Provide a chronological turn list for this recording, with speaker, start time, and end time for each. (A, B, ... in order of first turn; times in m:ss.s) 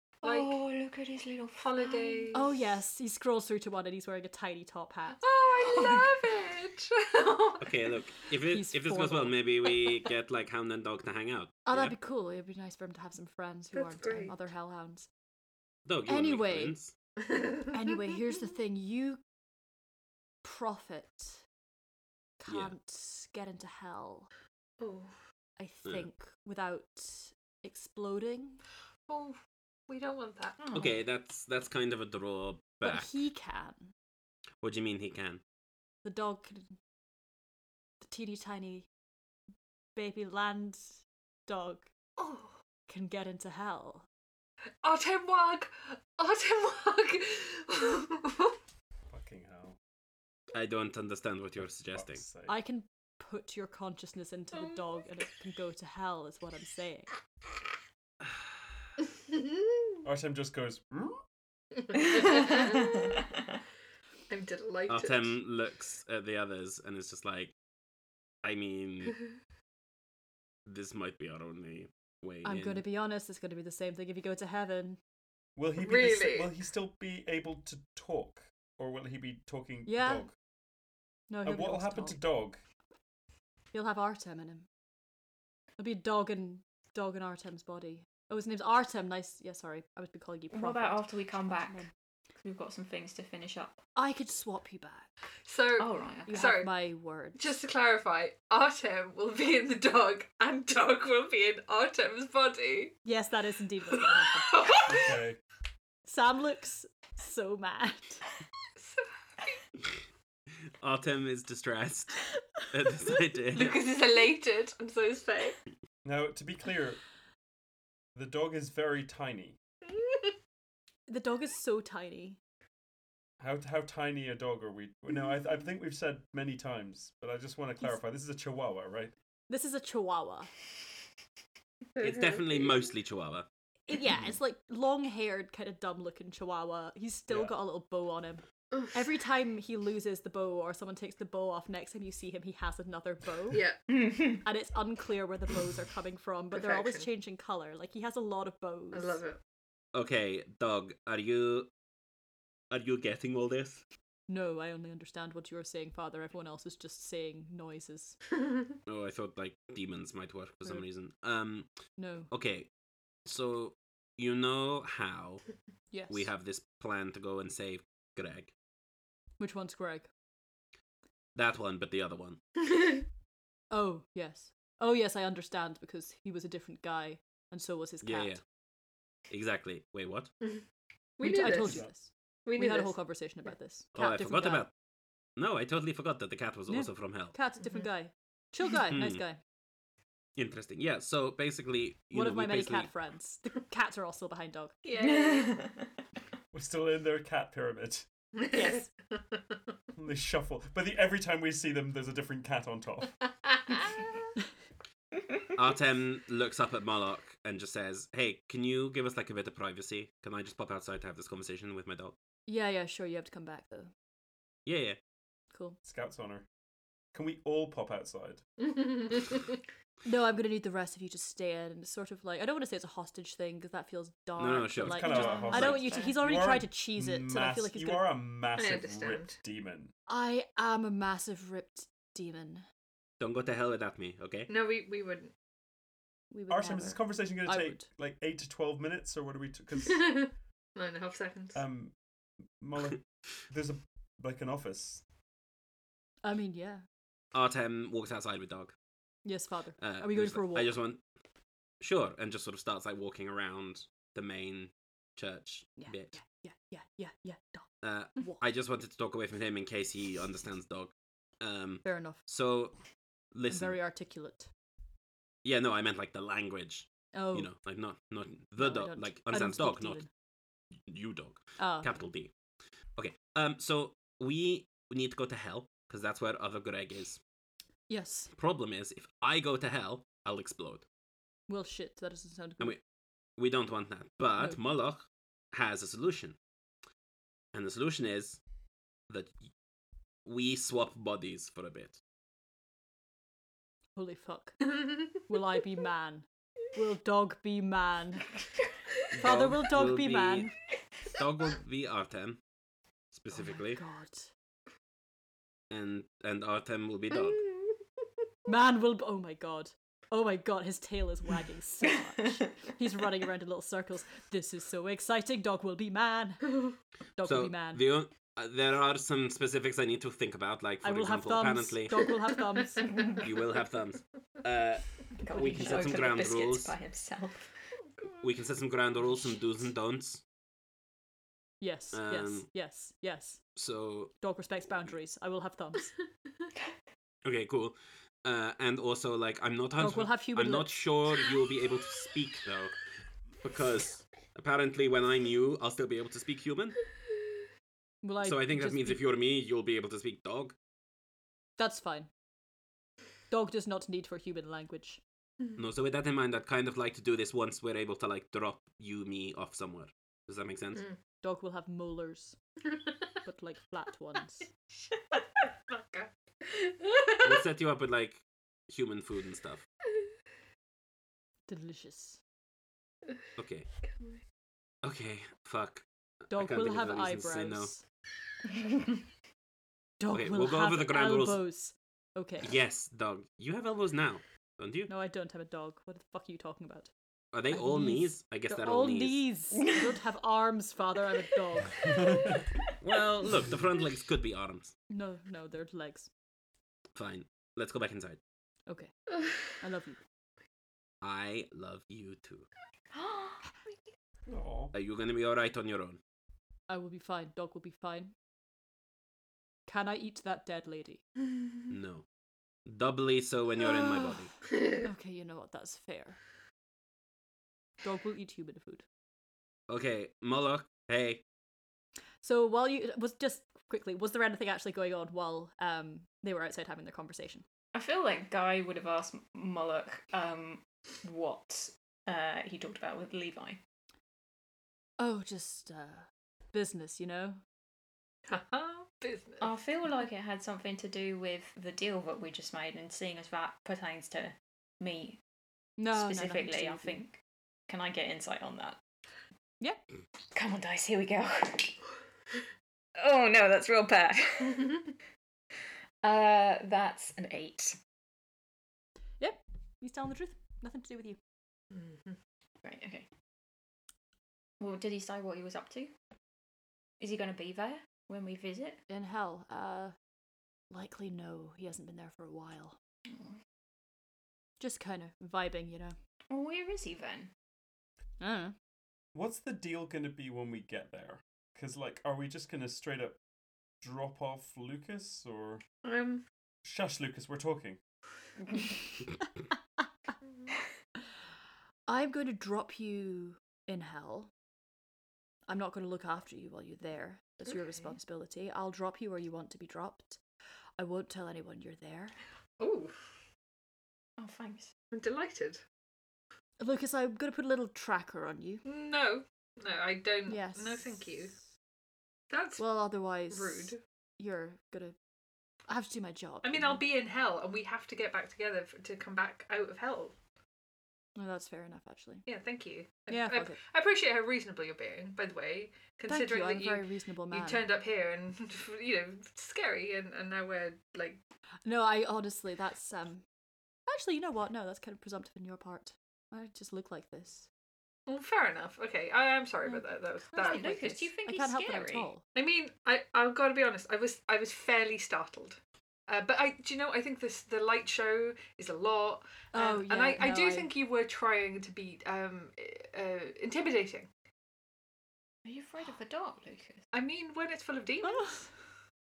0:00.2-0:02.4 A
0:00.2-0:00.6 B
0:01.6-0:02.4 B
0:02.3-0:05.2 C
0:05.2-0:07.8 B
0:07.6-0:11.9 D
0:08.4-0:09.7 C
0:11.6-0:15.1 C
0:13.7-0:14.3 B
0:15.8-0:16.9 D
0:16.1-0:16.8 C
0:17.7-0:19.2 C
0:20.4-0:21.4 C
0:22.4-0:24.3 C
0:22.5-0:22.7 D
0:24.8-0:25.1 B
0:25.6-0:28.6 C
0:29.1-0:30.6 B
0:30.6-0:31.0 A
0:30.7-0:33.1 D
0:32.8-0:33.9 C
0:34.6-0:35.4 D
0:36.0-0:36.8 C
0:38.0-0:38.9 C
0:40.0-0:41.9 C
0:42.2-0:42.6 B
0:42.9-0:44.1 C
0:44.8-0:48.6 B
0:49.1-0:49.8 E
0:50.5-0:52.2 D
0:51.6-0:52.5 E
0:52.5-0:57.1 C
1:00.0-1:01.2 E
1:01.8-1:03.0 B
1:02.1-1:03.0 A
1:04.3-1:05.4 B
1:04.9-1:07.5 D
1:08.4-1:09.2 D
1:10.6-1:12.8 D
1:12.4-1:15.0 C
1:15.6-1:20.3 E
1:15.8-1:16.5 B
1:19.8-1:20.3 C
1:21.3-1:22.2 C
1:21.4-1:22.6 E
1:23.7-1:24.6 C
1:25.8-1:31.9 C
1:30.5-1:31.8 A
1:32.4-1:33.8 A
1:34.0-1:35.1 C
1:35.4-1:36.8 B
1:35.8-1:36.4 A
1:36.3-1:37.5 C
1:37.4-1:43.0 B
1:43.0-1:44.8 C
1:44.4-1:45.2 B
1:44.8-1:45.4 E
1:46.1-1:48.2 C
1:48.8-1:49.6 B
1:50.8-1:53.8 D
1:53.5-1:55.6 B
1:56.0-1:57.0 E
1:58.1-1:59.6 E
2:01.1-2:02.4 C
2:03.4-2:09.1 E
2:09.5-2:10.5 C
2:12.0-2:12.8 B
2:12.0-2:13.4 D
2:13.9-2:23.6 C
2:23.5-2:23.8 B
2:23.9-2:24.4 A
2:24.4-2:29.2 C
2:26.5-2:27.1 B
2:28.9-2:29.4 B
2:29.9-2:31.7 D
2:32.7-2:33.8 D
2:34.3-2:38.2 C
2:38.8-2:41.7 D
2:42.0-2:42.3 C
2:42.3-2:42.7 D
2:43.3-2:45.4 D
2:45.9-2:46.3 C
2:46.1-2:48.5 D
2:49.4-2:50.1 C
2:51.4-2:52.4 D
2:53.7-2:58.4 C
2:58.0-2:58.4 D
2:59.3-3:00.3 D
3:01.2-3:01.9 B
3:01.2-3:04.7 C
3:01.4-3:01.9 E
3:02.4-3:03.0 B
3:03.9-3:04.7 D
3:05.4-3:07.4 D
3:06.7-3:09.4 C
3:08.9-3:09.2 D
3:10.4-3:12.9 D
3:12.1-3:14.7 C
3:14.8-3:15.6 B
3:15.0-3:15.9 A
3:16.5-3:18.1 E
3:18.4-3:19.4 B
3:18.5-3:18.8 C
3:20.0-3:23.1 E
3:25.6-3:32.1 D
3:32.5-3:33.9 C
3:34.6-3:35.0 D
3:35.5-3:35.8 C
3:35.8-3:36.4 E
3:37.1-3:38.4 E
3:38.6-3:39.6 B
3:40.0-3:48.1 C
3:44.4-3:46.0 D
3:44.8-3:49.9 E
3:45.2-3:46.0 A
3:45.3-3:46.1 B
3:48.6-3:49.4 B
3:50.1-3:52.6 C
3:53.2-3:54.5 D
3:54.5-3:55.3 B
3:56.3-3:57.9 C
3:56.5-4:00.2 E
3:59.9-4:01.6 B
4:01.5-4:01.9 E
4:02.6-4:05.0 E
4:06.2-4:06.8 C
4:07.3-4:08.7 D
4:09.2-4:10.7 C
4:09.8-4:11.0 D
4:11.8-4:16.2 D
4:15.8-4:18.4 C
4:17.8-4:22.7 D
4:21.8-4:22.2 C
4:23.3-4:23.8 D
4:23.5-4:24.5 C
4:25.4-4:30.0 D
4:27.1-4:27.5 C
4:28.6-4:30.1 C
4:30.8-4:32.3 D
4:31.6-4:31.9 C
4:33.0-4:37.2 D
4:37.9-4:38.3 C
4:38.4-4:40.8 D
4:41.5-4:42.8 C
4:43.4-4:46.4 D
4:47.5-4:48.4 D
4:49.1-4:49.4 D
4:50.2-4:52.0 D
4:54.0-4:58.4 C
4:59.1-5:00.5 D
4:59.2-5:00.6 C
5:01.1-5:02.4 D
5:03.1-5:03.8 D
5:03.3-5:04.3 C
5:05.7-5:07.4 D
5:08.4-5:17.8 C
5:17.2-5:21.9 D
5:20.8-5:23.0 C
5:23.2-5:26.7 D
5:25.2-5:27.6 A
5:25.3-5:26.0 C
5:28.0-5:28.3 B
5:28.2-5:30.2 D
5:31.6-5:33.4 C
5:31.9-5:32.5 D
5:33.6-5:34.1 D
5:34.2-5:35.9 C
5:37.2-5:42.7 D
5:39.8-5:40.8 C
5:43.4-5:46.8 D
5:48.0-5:49.0 C
5:48.2-5:50.6 D
5:51.6-5:52.1 C
5:53.3-5:55.0 C
5:55.6-6:00.9 D
6:01.2-6:02.4 C
6:03.2-6:04.5 C
6:05.7-6:07.4 B
6:07.2-6:09.6 D
6:11.5-6:12.2 C
6:13.4-6:13.7 D
6:14.8-6:17.7 D
6:16.3-6:17.8 C
6:20.0-6:22.5 C
6:20.1-6:21.4 D
6:22.4-6:24.9 D
6:24.9-6:26.9 C
6:27.3-6:29.3 D
6:27.5-6:31.9 C
6:31.9-6:32.4 E
6:32.8-6:34.7 D
6:34.9-6:36.1 C
6:36.9-6:38.2 D
6:38.7-6:40.0 C
6:41.0-6:42.5 D
6:42.9-6:43.8 A
6:44.3-6:44.7 E
6:44.7-6:46.0 D
6:46.7-6:48.1 C
6:49.7-6:51.0 C
6:51.7-6:52.0 D
6:52.6-6:54.4 D
6:54.8-6:56.2 C
6:57.8-6:58.8 C
6:59.7-7:01.2 D
7:02.2-7:07.4 C
7:07.7-7:13.6 A
7:15.0-7:17.4 C
7:18.3-7:19.5 B
7:19.4-7:25.2 A
7:25.8-7:27.0 C
7:25.9-7:27.2 A
7:27.7-7:28.8 A
7:30.3-7:31.8 A
7:33.0-7:34.9 A
7:36.0-7:37.8 A
7:39.2-7:41.2 C
7:41.7-7:42.1 B
7:42.6-7:43.1 A
7:44.6-7:45.9 A
7:47.0-7:48.8 A
7:48.9-7:49.9 C
7:50.7-7:52.8 C
7:53.1-7:53.3 A
7:54.6-7:56.0 C
7:56.3-7:57.3 A
7:58.2-7:58.6 C
7:59.1-8:03.2 E
8:03.8-8:05.6 E
8:05.8-8:06.2 B
8:06.6-8:07.8 E
8:11.9-8:14.3 C
8:15.5-8:20.2 C
8:20.8-8:22.1 C
8:22.6-8:22.9 B
8:24.2-8:24.7 A
8:24.9-8:25.6 B
8:26.6-8:28.6 C
8:28.6-8:31.4 B
8:30.3-8:31.4 C
8:32.3-8:32.6 B
8:32.6-8:35.0 C
8:33.3-8:33.8 B
8:35.7-8:36.8 C
8:36.4-8:40.1 B
8:41.2-8:42.2 C
8:42.3-8:51.2 B
8:43.1-8:43.6 C
8:46.1-8:47.6 C
8:51.6-8:53.2 C
8:53.9-8:57.5 C
8:58.1-9:01.1 B
9:00.4-9:02.1 A
9:01.3-9:02.2 C
9:02.3-9:14.1 B
9:09.5-9:10.7 C
9:15.4-9:16.8 A
9:16.9-9:18.5 B
9:18.0-9:18.5 C